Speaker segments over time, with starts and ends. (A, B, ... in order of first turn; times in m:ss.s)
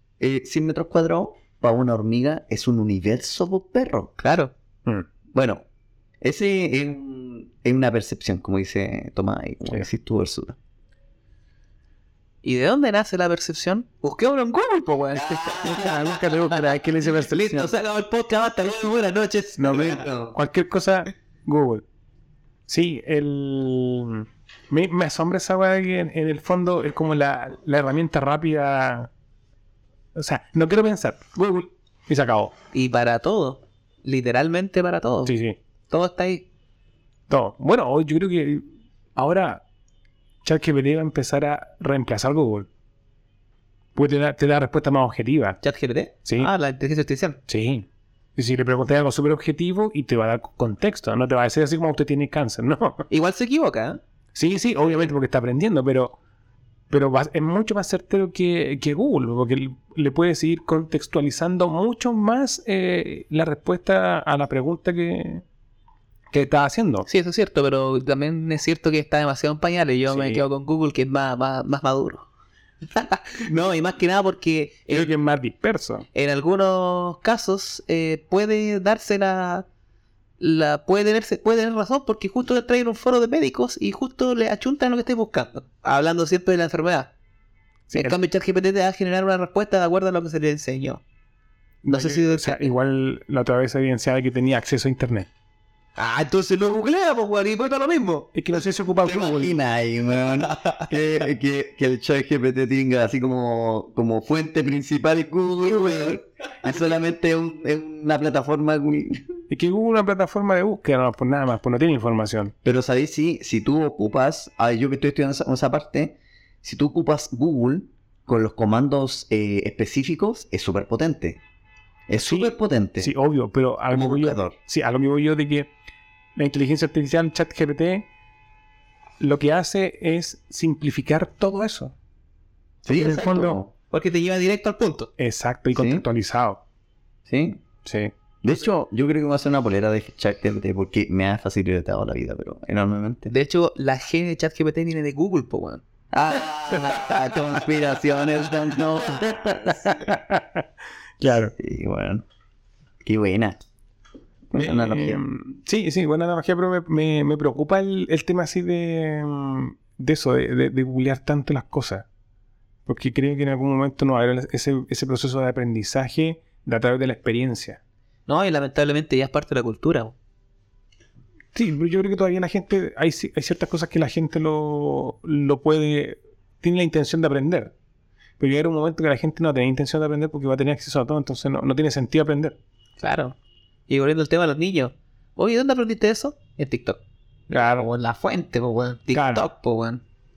0:00.2-0:04.1 A
0:04.2-0:04.5 B
0:05.3-0:05.6 A
0:06.2-0:10.6 A
0:12.4-0:16.0 B
0:15.2-0:16.1 A
0:15.6-0:17.6 C
0:17.3-0:20.0 B
0:19.6-0:21.8 C
0:19.8-0:20.3 A
0:22.7-0:29.1 C
0:30.1-0:32.5 C
0:32.7-0:35.3 B
0:35.2-0:35.6 C
0:35.9-0:36.4 B
0:37.3-0:39.6 C
0:40.4-0:42.7 C
0:43.9-0:45.6 C
0:45.6-0:47.4 B
0:46.2-0:46.5 C
0:47.5-0:53.1 C
0:53.1-0:54.0 B
0:54.3-0:56.2 C
0:56.9-1:05.4 C
1:06.3-1:07.1 C
1:07.1-1:12.2 B
1:10.1-1:10.4 C
1:12.9-1:15.1 B
1:14.9-1:16.0 C
1:16.1-1:19.6 B
1:20.4-1:27.1 B
1:27.9-1:28.1 C
1:27.9-1:31.0 B
1:31.8-1:35.3 C
1:31.9-1:32.7 B
1:36.0-1:38.3 B
1:38.3-1:39.5 C
1:39.0-1:49.4 A
1:49.5-1:52.5 C
1:52.6-2:01.4 A
2:02.1-2:03.1 A
2:02.2-2:05.7 C
2:03.9-2:04.5 A
2:06.4-2:08.1 C
2:09.2-2:11.9 C
2:12.8-2:13.7 A
2:12.9-2:13.6 C
2:13.9-2:15.1 B
2:15.2-2:16.6 C
2:15.7-2:16.0 A
2:17.3-2:17.6 A
2:17.8-2:18.1 C
2:18.4-2:23.3 A
2:23.3-2:25.8 B
2:26.1-2:30.2 A
2:29.8-2:30.6 C
2:31.2-2:31.5 C
2:31.6-2:32.2 A
2:33.0-2:33.6 A
2:34.5-2:35.2 A
2:34.5-2:42.0 C
2:42.8-2:47.8 C
2:48.3-2:50.1 B
2:51.5-2:57.7 C
2:58.4-3:02.6 C
3:03.0-3:03.3 B
3:03.9-3:07.0 B
3:07.5-3:07.9 C
3:07.6-3:10.0 B
3:09.1-3:09.5 C